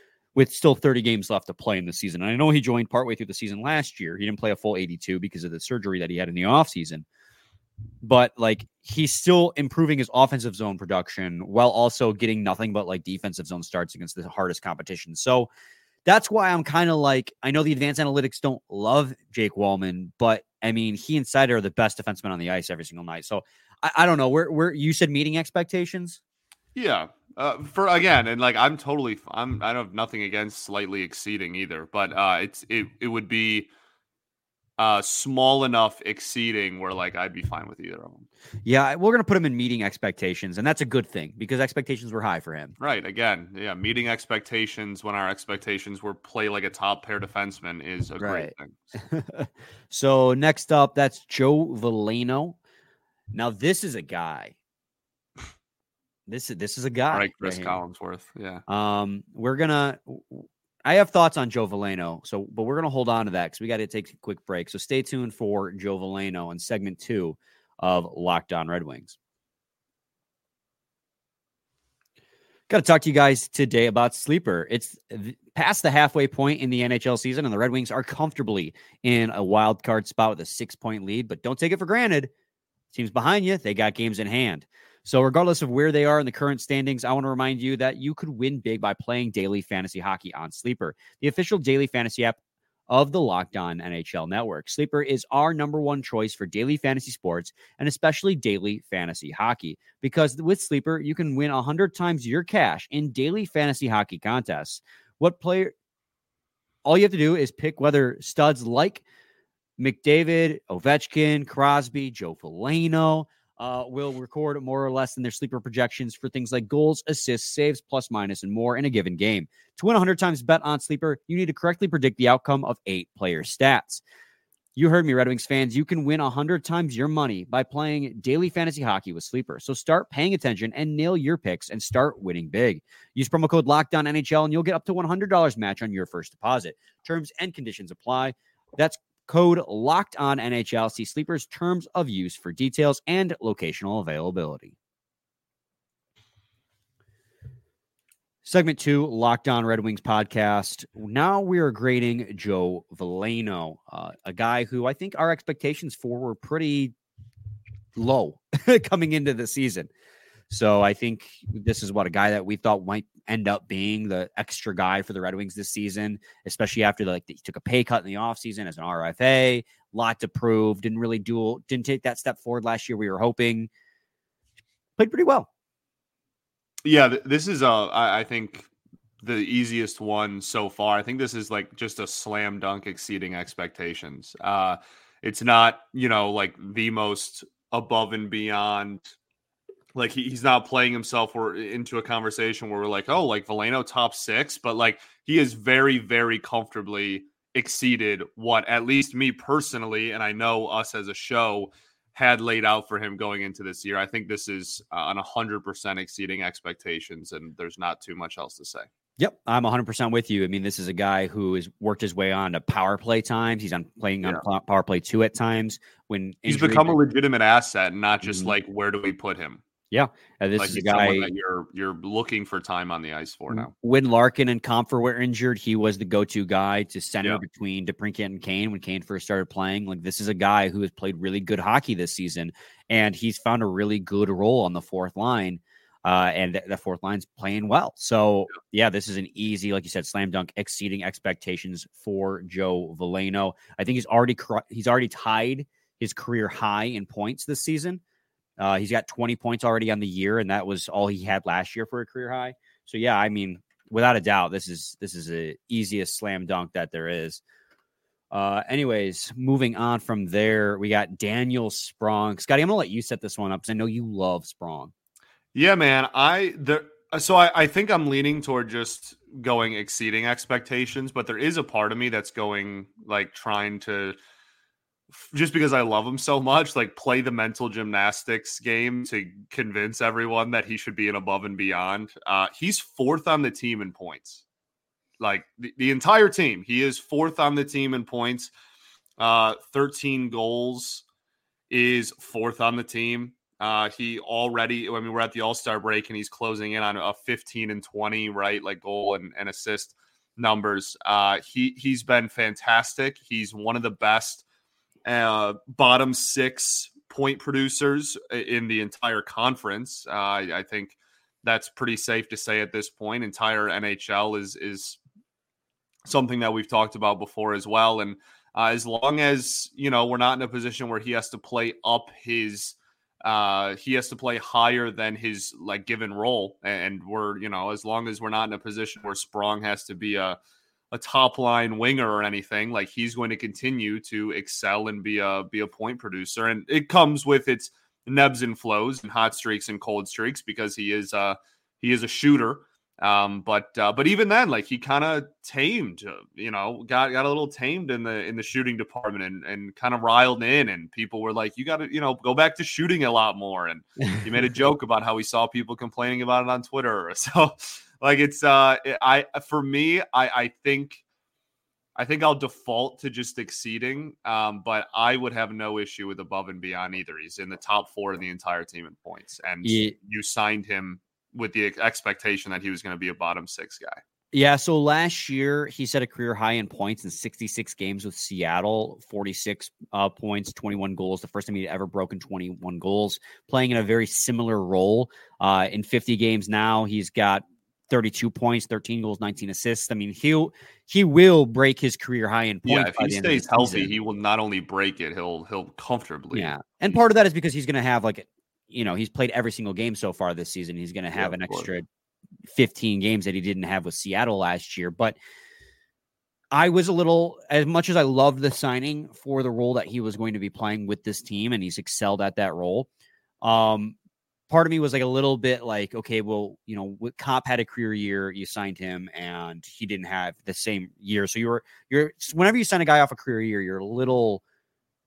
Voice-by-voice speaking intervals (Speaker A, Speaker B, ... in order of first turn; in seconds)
Speaker A: 0.3-7.0, 8.0-15.5, 16.1-26.2, 38.7-42.8, 48.2-52.6, 53.3-54.5, 56.3-57.8, 58.7-69.2, 72.7-82.3, 82.9-92.4, 92.9-105.7, 106.8-109.0, 109.8-124.0, 124.8-144.8, 148.4-156.9, 158.0-159.9, 160.5-173.7, 175.0-175.5, 209.2-217.0, 218.2-218.6, 219.9-221.3, 223.5-248.0, 248.6-257.4, 258.3-264.9, 369.6-369.9, 374.3-393.9, 396.3-401.9, 402.5-405.2, 406.5-412.9, 413.4-414.0, 414.5-424.4
Speaker B: 26.8-33.7, 34.8-38.3, 42.8-48.9, 57.1-58.6, 176.8-178.7, 179.2-189.1, 189.9-208.9, 216.5-219.6, 220.6-223.7, 265.5-274.2, 275.1-284.4, 285.2-288.5, 289.2-291.0, 291.7-304.4, 305.1-315.0, 316.1-330.4, 330.9-361.0, 362.0-374.0, 392.6-397.0, 401.1-401.7